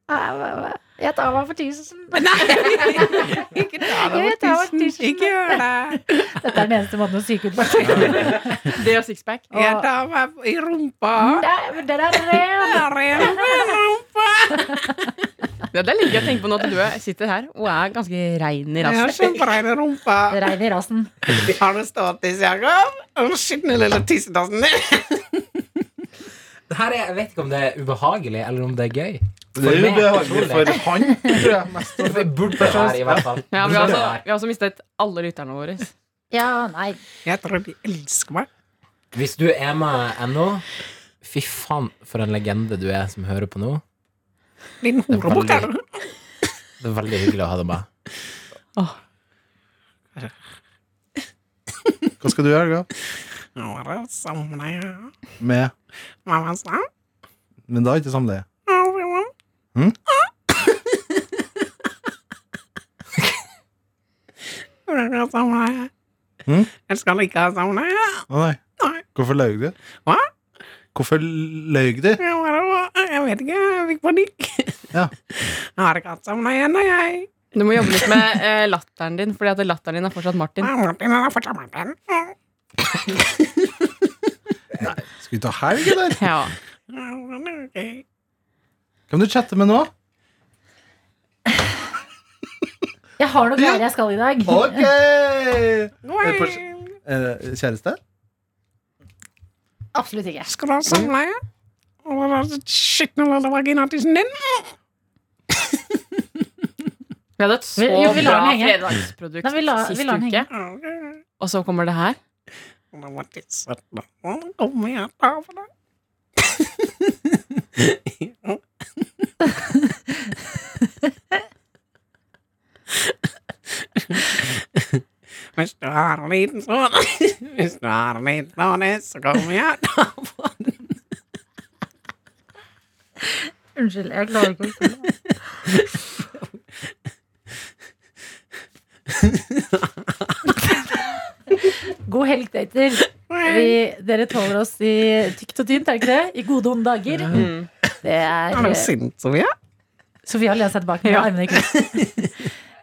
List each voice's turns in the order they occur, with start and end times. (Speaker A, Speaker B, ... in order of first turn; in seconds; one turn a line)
Speaker A: 0.1-8.8
Speaker B: 2.1-6.2
Speaker C: 7.8-8.2
Speaker D: 8.4-9.5
Speaker A: 9.5-9.9
Speaker B: 9.5-11.4
Speaker A: 11.2-13.7
Speaker B: 12.1-14.9
Speaker D: 15.7-19.5
Speaker B: 18.8-20.4
Speaker A: 20.3-21.1
Speaker B: 21.4-25.4
Speaker C: 26.7-30.9
Speaker E: 29.6-34.0
Speaker C: 32.0-34.2
Speaker D: 33.5-35.9
Speaker A: 36.3-37.0
Speaker B: 37.2-38.5
Speaker C: 39.1-40.6
Speaker C: 41.2-43.8
Speaker B: 44.8-45.8
Speaker C: 45.1-45.7
Speaker C: 46.8-47.9
Speaker E: 52.2-52.9
Speaker B: 53.5-55.1
Speaker E: 55.4-55.7
Speaker B: 56.2-56.9
Speaker E: 57.7-58.5
Speaker B: 58.6-59.3
Speaker B: 64.9-65.9
Speaker E: 66.5-66.7
Speaker B: 66.8-68.2
Speaker E: 68.3-68.6
Speaker E: 69.1-69.8
Speaker E: 70.9-72.2
Speaker B: 72.2-74.8
Speaker B: 75.4-77.3
Speaker D: 77.5-80.7
Speaker B: 77.9-78.2
Speaker B: 80.6-82.3
Speaker E: 84.8-86.2
Speaker D: 86.2-86.5
Speaker B: 86.9-88.0
Speaker E: 89.1-89.9
Speaker A: 93.2-94.9
Speaker E: 93.6-93.8
Speaker E: 94.5-98.0
Speaker B: 96.0-96.9
Speaker A: 99.9-100.5
Speaker B: 100.5-101.4
Speaker B: 102.0-104.7
Speaker D: 107.4-110.5
Speaker A: 107.8-108.8
Speaker A: 109.4-110.5
Speaker B: 110.6-111.2
Speaker D: 111.4-112.2
Speaker B: 112.9-115.7
Speaker B: 117.8-118.6
Speaker B: 124.0-125.0
Speaker B: 125.5-130.8
Speaker A: 133.8-135.1
Speaker B: 139.2-140.3
Speaker A: 141.6-147.5
Speaker B: 143.2-143.8
Speaker B: 147.2-147.5
Speaker D: 147.3-147.7
Speaker A: 148.0-148.9
Speaker B: 148.5-149.5
Speaker A: 150.2-152.1
Speaker D: 151.1-151.3
Speaker B: 151.7-152.3